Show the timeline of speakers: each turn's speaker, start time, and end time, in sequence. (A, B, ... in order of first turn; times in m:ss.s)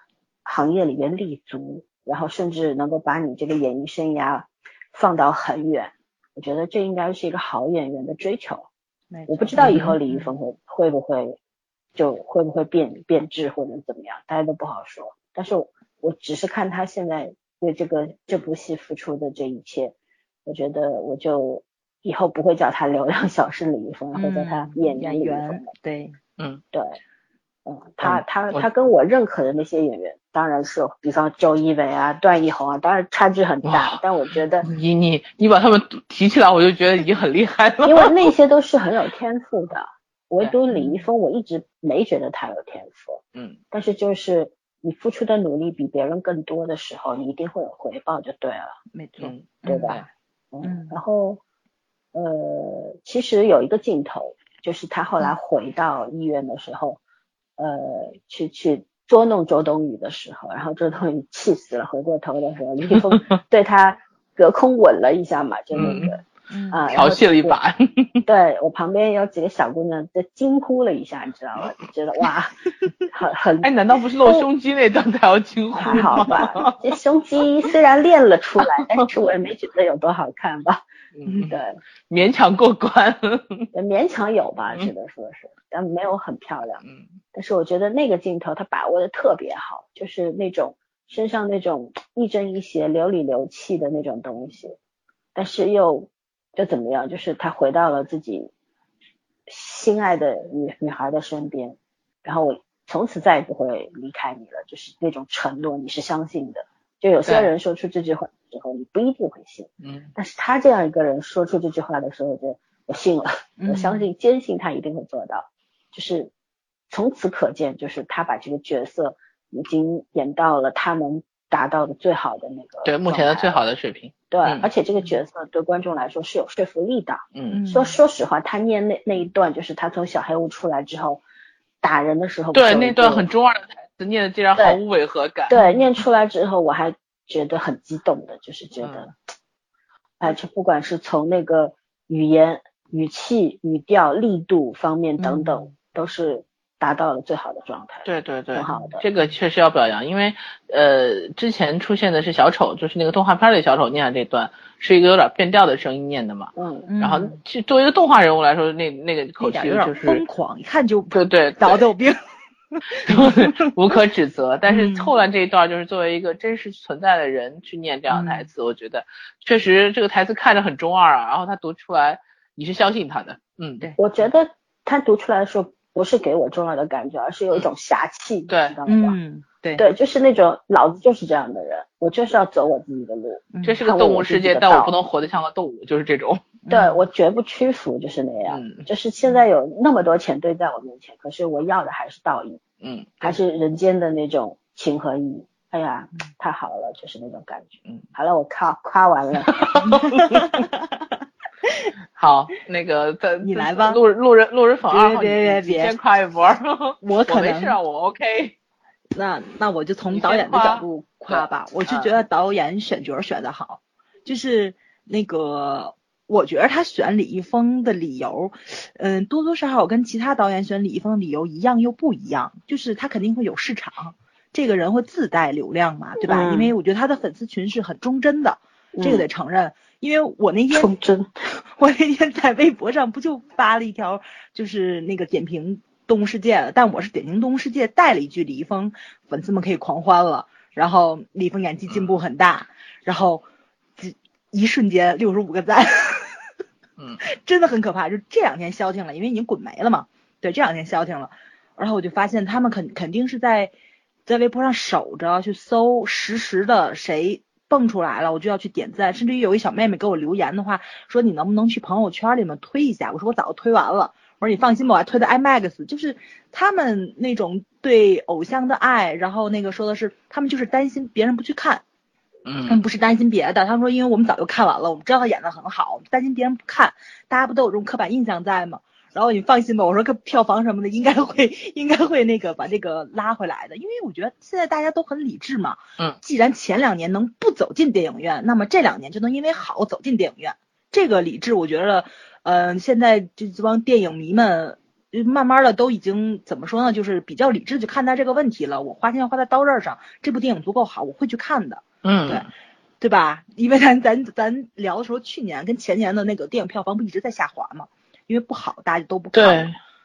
0:00.4-0:08.7 A
0:09.1-0:10.3 B
0:09.3-0:11.4 A
0:09.6-0:09.9 C
0:12.0-0:19.9 A
0:20.4-0:25.6 A
0:24.1-0:26.2 B
0:26.7-0:27.0 A
0:27.6-0:34.6 A
0:28.0-0:28.7 C
0:33.6-0:34.0 C
0:34.6-0:38.3 C
0:37.8-0:43.2 A
0:40.7-0:41.1 B
0:43.7-0:48.7 A
0:48.9-0:50.0 B
0:49.2-0:50.0 C
0:49.6-0:51.4 A
0:50.6-0:51.0 B
0:52.1-0:57.0 A
0:57.6-1:07.6 A
1:02.9-1:03.3 C
1:05.7-1:06.1 C
1:05.8-1:06.8 B
1:06.9-1:08.2 C
1:08.2-1:12.6 A
1:13.1-1:13.7 A
1:13.6-1:16.7 C
1:15.8-1:16.4 B
1:15.8-1:20.8 A
1:18.6-1:19.0 C
1:21.1-1:21.6 C
1:21.5-1:21.8 A
1:22.1-1:23.7 C
1:23.7-1:26.8 A
1:26.8-1:27.2 C
1:27.3-1:34.8 A
1:35.3-1:38.5 A
1:39.5-1:56.3 A
1:47.2-1:47.5 C
1:49.8-1:50.1 C
1:53.6-1:54.1 B
1:56.9-2:03.6 A
2:02.8-2:04.7 C
2:04.3-2:11.2 A
2:07.3-2:07.6 C
2:07.5-2:08.0 B
2:11.8-2:13.3 A
2:12.5-2:15.6 C
2:15.5-2:19.1 A
2:15.5-2:15.9 B
2:18.8-2:19.1 C
2:20.2-2:29.0 A
2:25.2-2:25.7 B
2:28.0-2:40.2 C
2:28.7-2:29.0 B
2:36.6-2:36.9 A
2:36.9-2:37.4 B
2:39.4-2:42.2 B
2:41.1-2:41.8 C
2:42.8-2:43.7 B
2:43.1-2:53.9 C
2:44.7-2:45.1 B
2:48.1-2:48.5 B
2:54.0-2:59.2 A
2:58.5-2:58.8 C
2:58.9-2:59.8 B
2:59.8-3:04.9 A
3:03.5-3:03.8 B
3:03.6-3:06.4 C
3:06.6-3:07.0 B
3:06.7-3:12.6 A
3:08.5-3:08.8 C
3:12.8-3:13.3 C
3:13.2-3:19.6 A
3:19.4-3:20.4 C
3:19.8-3:21.0 B
3:22.2-3:28.5 C
3:23.4-3:24.0 B
3:24.9-3:26.0 B
3:27.0-3:27.8 B
3:29.1-3:50.9 B
3:30.1-3:30.8 C
3:46.2-3:46.7 A
3:49.0-3:49.2 A
3:50.7-3:51.3 A
3:51.8-4:03.4 B
4:01.9-4:02.2 C
4:04.0-4:06.4 B
4:07.3-4:13.7 B
4:14.2-4:31.8 B
4:32.4-4:32.8 C
4:32.7-5:02.5 B
5:02.0-5:02.4 C
5:03.0-5:09.7 B
5:09.3-5:09.8 C